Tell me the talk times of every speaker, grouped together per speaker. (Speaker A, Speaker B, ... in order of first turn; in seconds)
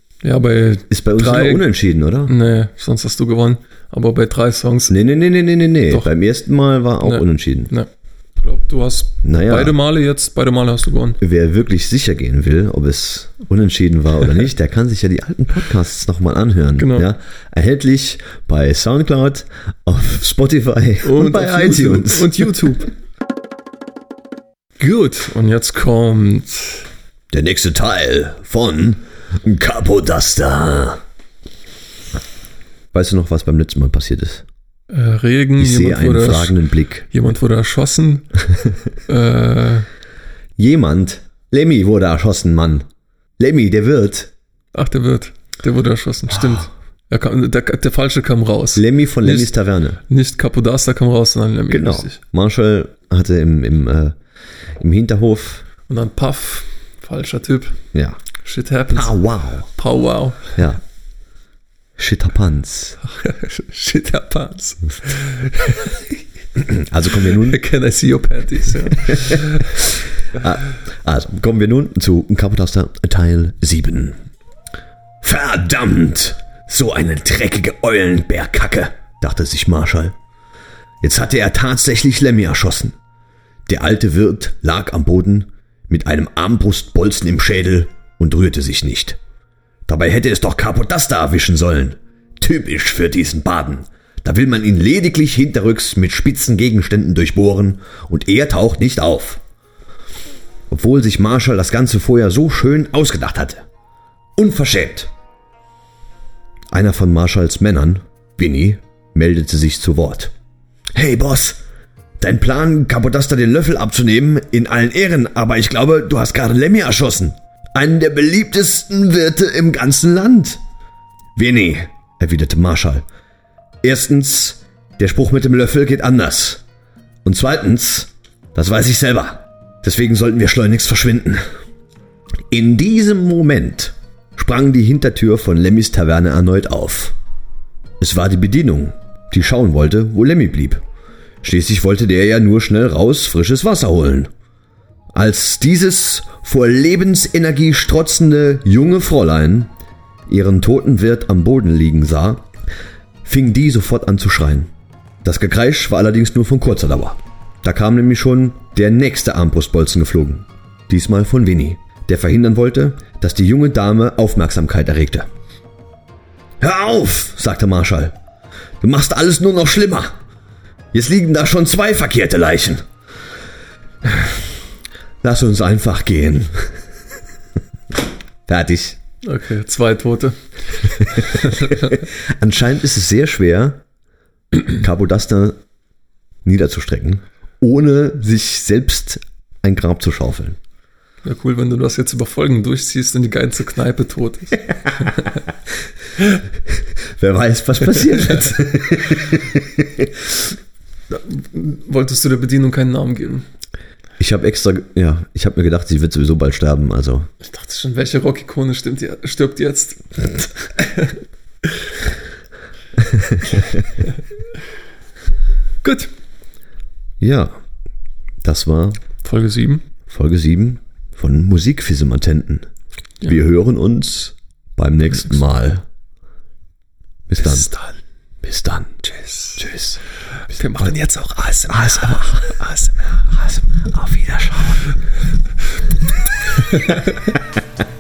Speaker A: 0.2-1.7, 2.2-5.0, 7.0-11.2, 16.8-17.1, 21.0-22.9, 24.8-26.9, 34.9-38.3, 39.1-39.9, 44.7-49.5, 50.1-52.2, 55.9-57.8, 58.4-60.5, 63.0-66.2, 67.2-69.8, 179.2-181.9, 191.2-195.2, 201.1-203.5, 207.4-211.2, 215.8-216.1, 219.2-219.8, 227.4-228.0, 229.0-229.7, 230.5-233.8, 236.6-237.3
Speaker B: 0.9-2.3, 4.9-7.7, 9.2-9.8, 11.2-22.7, 27.3-31.0, 32.9-34.5, 35.6-37.1, 40.6-42.9, 43.4-44.3, 48.8-50.0, 51.7-54.1, 54.8-55.6, 57.9-58.2, 58.9-59.7, 62.0-63.0, 66.6-67.6, 70.3-74.2, 75.2-80.2, 81.0-83.0, 83.7-89.2, 89.9-99.4, 100.7-103.6, 104.4-105.1, 106.7-110.3, 111.0-111.6, 112.2-120.6, 121.4-123.0, 123.8-126.6, 127.2-131.4, 132.5-137.2, 138.0-140.8, 141.4-144.3, 145.1-149.7, 150.3-152.5, 153.2-154.7, 155.2-165.3, 166.6-168.1, 168.8-170.1, 170.9-172.8, 174.1-174.3, 175.2-176.8, 178.5-179.0, 181.2-183.8, 184.6-185.6, 186.4-190.6, 197.1-200.1, 204.2-207.3, 213.1-213.8, 217.2-217.5, 218.4-219.0, 220.1-222.7, 223.2-225.8, 227.3-227.7, 228.4-228.9, 229.6-230.0, 231.7-232.6, 233.8-235.0